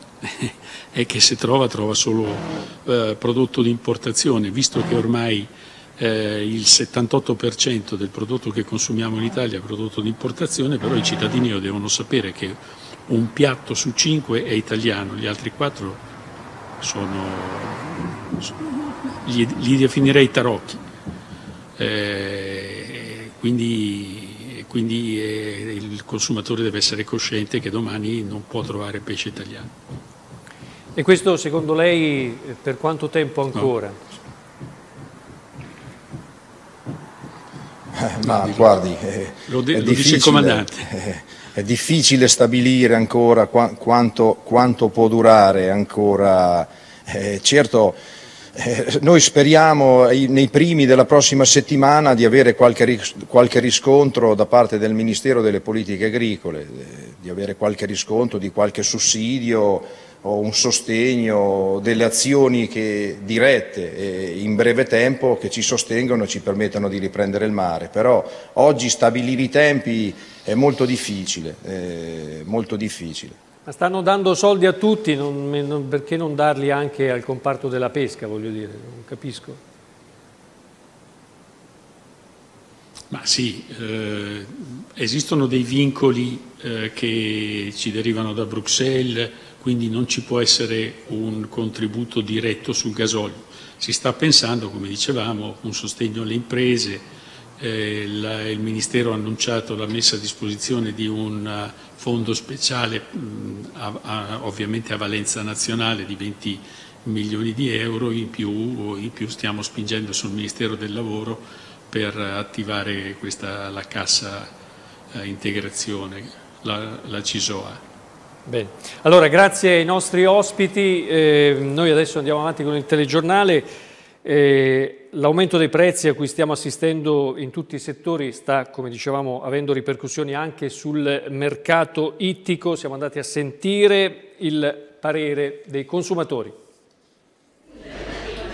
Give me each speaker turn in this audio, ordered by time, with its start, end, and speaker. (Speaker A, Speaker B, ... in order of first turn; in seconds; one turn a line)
Speaker A: 0.2-16.0
Speaker A: 16.8-20.8
Speaker A: 21.8-29.7
Speaker B: 30.9-34.0
Speaker C: 38.0-48.0
Speaker A: 38.2-38.8
Speaker A: 39.5-40.9
Speaker C: 48.5-73.3
Speaker B: 73.7-79.6
Speaker A: 83.1-97.1
Speaker A: 97.6-114.5
Speaker A: 115.1-117.8
Speaker B: 118.5-123.7
Speaker B: 124.2-136.6